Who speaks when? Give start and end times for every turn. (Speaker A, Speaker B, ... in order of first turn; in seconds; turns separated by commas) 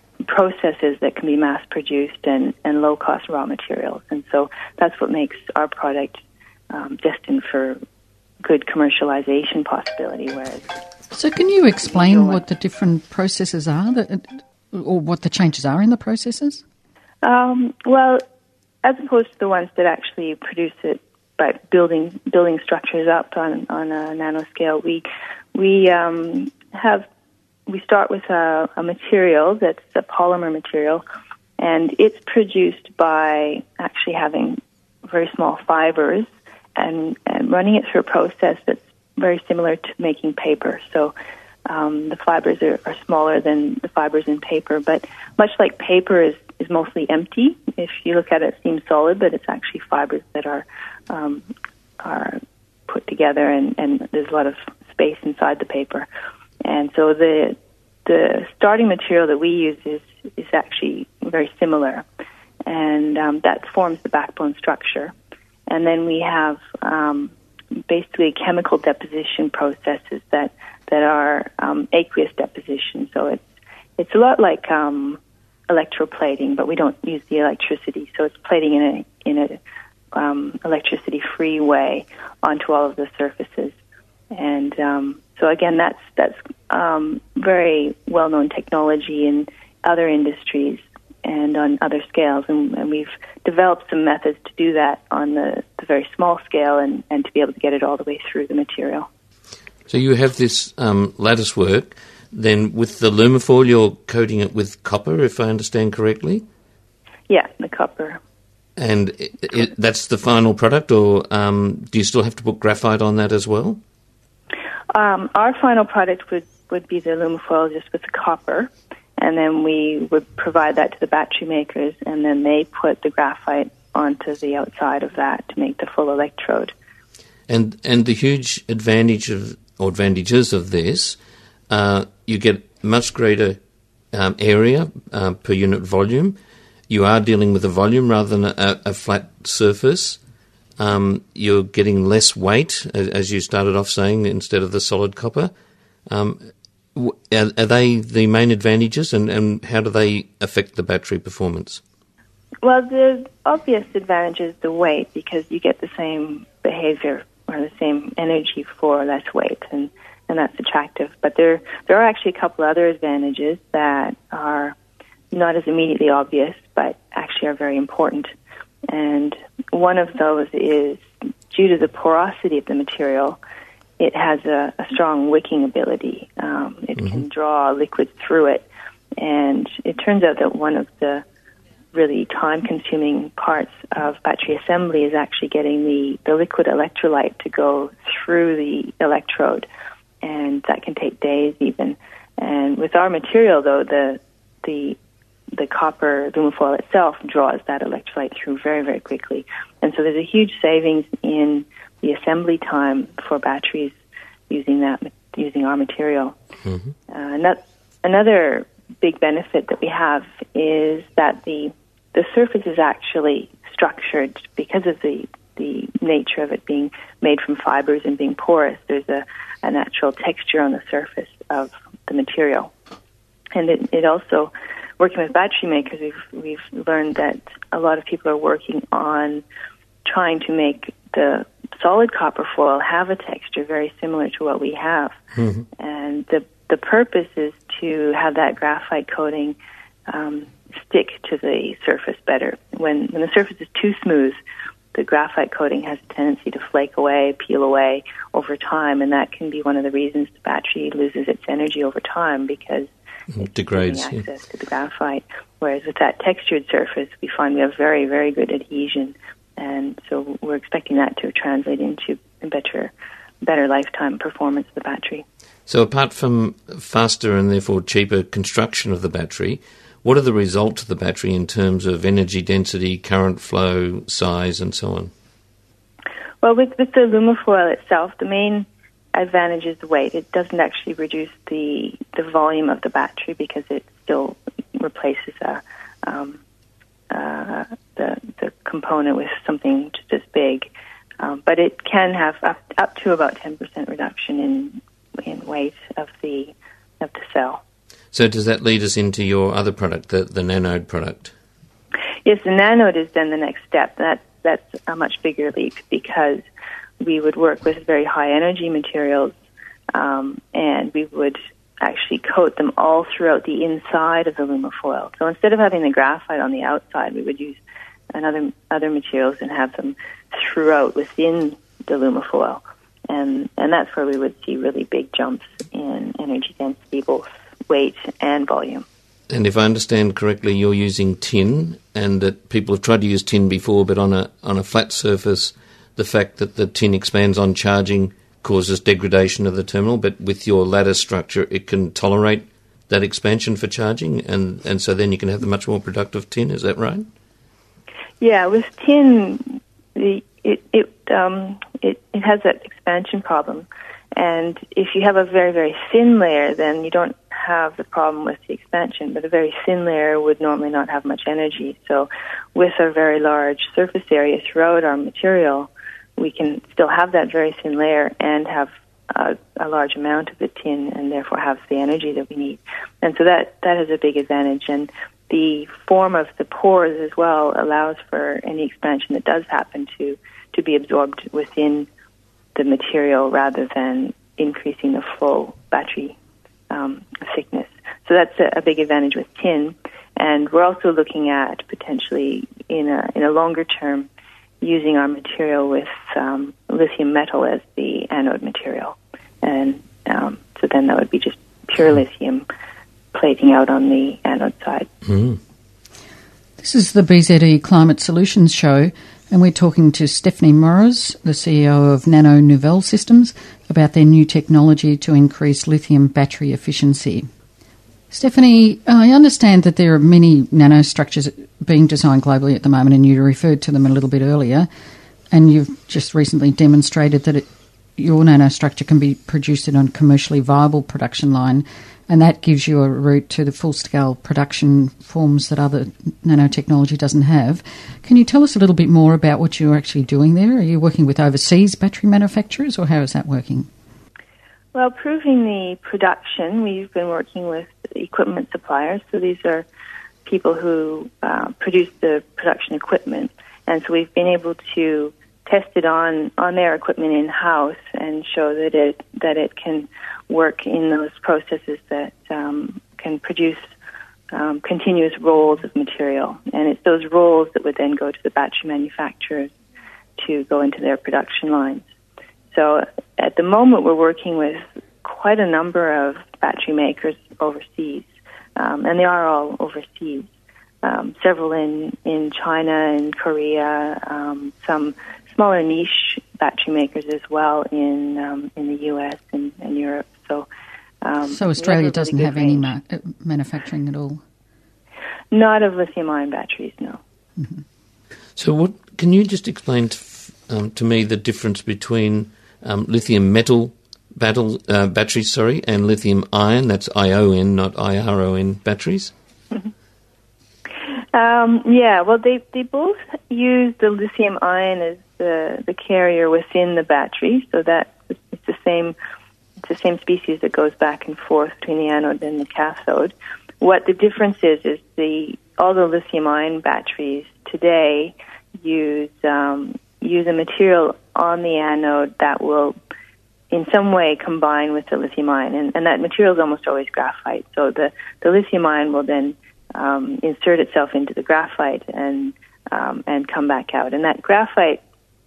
Speaker A: 0.2-7.8, Speaker A: 8.4-10.6, Speaker B: 11.1-16.6, Speaker A: 11.8-12.4, Speaker A: 17.2-18.2, Speaker A: 18.8-27.1, Speaker A: 27.7-31.0, Speaker A: 31.6-41.1, Speaker A: 41.7-51.5, Speaker A: 52.0-56.1, Speaker A: 56.6-62.0, Speaker A: 62.6-65.1, Speaker A: 65.7-67.3, Speaker A: 67.9-73.4, Speaker A: 74.0-75.2, Speaker A: 75.7-79.6, Speaker A: 80.1-83.7, Speaker A: 84.3-99.1, Speaker C: 99.9-106.5, Speaker A: 107.3-108.2, Speaker C: 108.8-113.8, Speaker A: 114.9-126.7, Speaker C: 127.5-131.2, Speaker C: 131.7-133.6, Speaker C: 134.1-136.4, Speaker C: 136.9-140.2, Speaker C: 140.8-145.5, Speaker C: 146.1-151.8, Speaker A: 152.6-164.8, Speaker A: 165.3-168.3, Speaker A: 168.9-173.4, Speaker A: 174.0-178.6, Speaker A: 179.2-181.2, Speaker A: 181.9-189.7, Speaker A: 190.2-195.0, Speaker A: 195.5-204.0, Speaker A: 204.5-206.3, Speaker A: 207.1-222.7, Speaker A: 223.5-229.4, Speaker A: 230.0-235.2, Speaker C: 235.3-235.7, Speaker A: 235.8-239.6, Speaker A: 240.1-244.4, Speaker A: 244.9-252.9, Speaker C: 253.3-254.2, Speaker A: 253.4-265.2, Speaker C: 265.7-275.1, Speaker A: 276.4-286.4, Speaker A: 287.1-297.6, Speaker C: 298.1-301.3, Speaker A: 302.2-306.4, Speaker A: 307.0-309.3, Speaker A: 309.9-317.6, Speaker A: 318.1-328.8, Speaker C: 329.3-347.1, Speaker A: 348.2-381.9, Speaker A: 382.5-386.1, Speaker A: 386.7-394.1, Speaker A: 394.6-402.5, Speaker A: 403.1-404.9, Speaker C: 405.1-405.4, Speaker B: 406.6-417.3, Speaker B: 418.1-424.7, Speaker B: 425.3-427.4, Speaker B: 428.0-443.7, Speaker A: 444.7-449.6, Speaker A: 450.2-463.7, Speaker A: 464.3-469.5, Speaker A: 470.2-471.8, Speaker A: 472.5-480.3, Speaker A: 480.8-490.5, Speaker A: 491.0-492.7, Speaker B: 491.3-494.2, Speaker A: 495.3-497.0, Speaker C: 498.4-509.1, Speaker A: 511.1-519.0, Speaker A: 519.6-532.7, Speaker A: 533.5-544.8